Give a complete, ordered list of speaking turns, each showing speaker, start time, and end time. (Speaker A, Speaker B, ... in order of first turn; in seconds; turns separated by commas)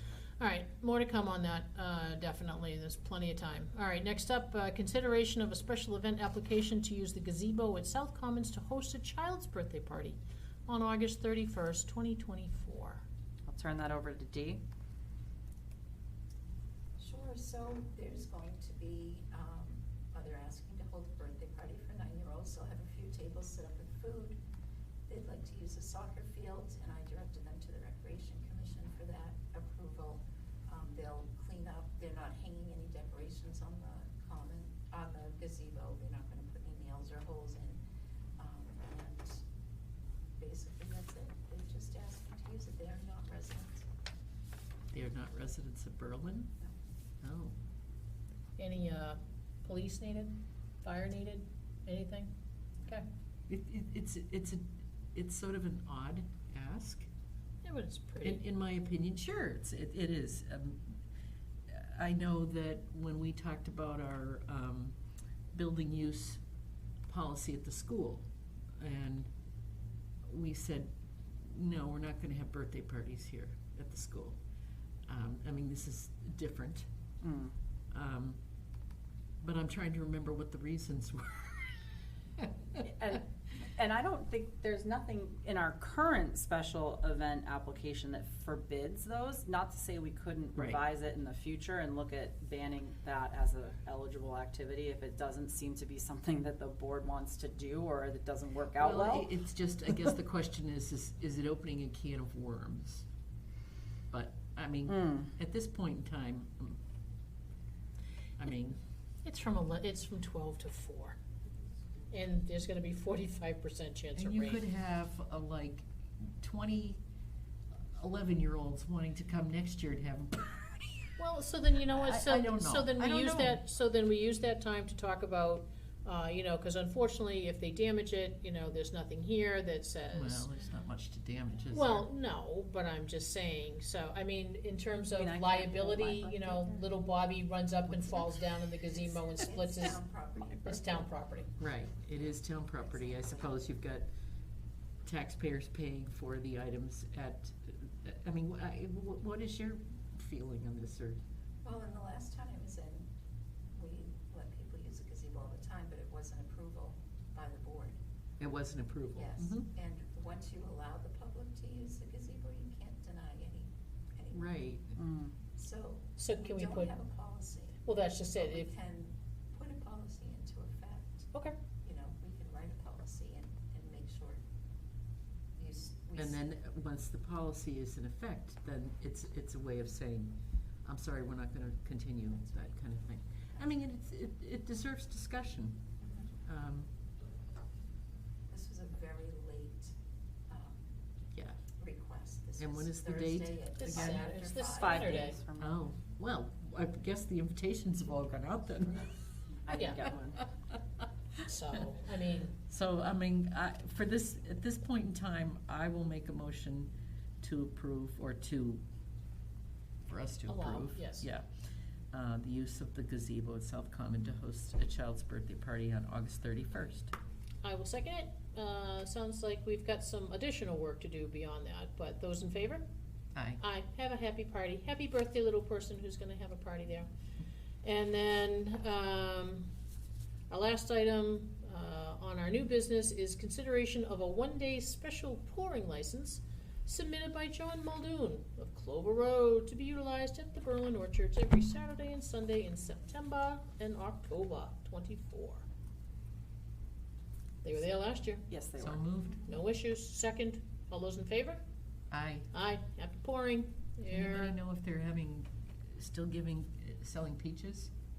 Speaker A: 0.4-13.0, Speaker B: 13.5-14.6, Speaker C: 17.0-24.4, Speaker C: 25.1-37.8, Speaker C: 38.4-39.4, Speaker C: 40.4-43.9, Speaker D: 44.9-46.6, Speaker D: 47.2-47.5, Speaker A: 48.6-52.3, Speaker D: 53.5-54.6, Speaker D: 55.1-57.1, Speaker A: 57.6-58.4, Speaker D: 58.2-60.9, Speaker D: 61.7-65.0, Speaker D: 65.5-66.4, Speaker D: 67.1-68.2, Speaker D: 68.8-69.3, Speaker D: 70.3-74.4, Speaker D: 75.1-76.9, Speaker B: 77.2-77.5, Speaker D: 77.9-78.4, Speaker D: 79.4-81.8, Speaker B: 82.8-99.3, Speaker D: 98.8-103.0, Speaker D: 104.1-106.8, Speaker B: 104.9-105.3, Speaker D: 108.4-108.8, Speaker A: 109.2-111.2, Speaker A: 112.1-114.6, Speaker D: 114.2-117.0, Speaker D: 118.0-120.6, Speaker A: 121.2-130.5, Speaker D: 121.9-123.6, Speaker D: 130.1-132.1, Speaker A: 131.7-141.5, Speaker B: 135.1-136.8, Speaker D: 137.9-138.2, Speaker C: 138.9-141.2, Speaker D: 141.6-144.1, Speaker C: 142.9-143.6, Speaker D: 145.0-151.2, Speaker C: 151.6-153.1, Speaker C: 153.7-158.0, Speaker D: 158.4-159.7, Speaker C: 159.2-164.5, Speaker D: 164.3-165.0, Speaker B: 165.0-165.3, Speaker C: 165.6-174.4, Speaker A: 166.2-166.9, Speaker A: 167.8-168.7, Speaker C: 175.6-176.4, Speaker D: 176.2-185.8, Speaker D: 186.4-186.9, Speaker C: 188.5-189.9, Speaker C: 190.5-190.9, Speaker C: 191.8-195.4, Speaker D: 192.6-194.3, Speaker A: 193.8-195.4, Speaker B: 194.7-195.8, Speaker D: 195.6-199.1, Speaker B: 199.7-200.4, Speaker A: 199.7-200.0, Speaker A: 201.4-202.5, Speaker D: 202.7-208.8, Speaker D: 210.1-211.5, Speaker A: 210.5-211.3, Speaker D: 212.1-217.1, Speaker A: 217.6-222.8, Speaker D: 223.3-223.6, Speaker A: 223.6-227.1, Speaker A: 227.8-229.7, Speaker A: 230.5-245.7, Speaker A: 247.6-248.4, Speaker B: 248.5-249.0, Speaker D: 248.8-249.4, Speaker A: 249.4-251.6, Speaker D: 252.1-252.5, Speaker A: 252.5-254.6, Speaker D: 254.1-257.9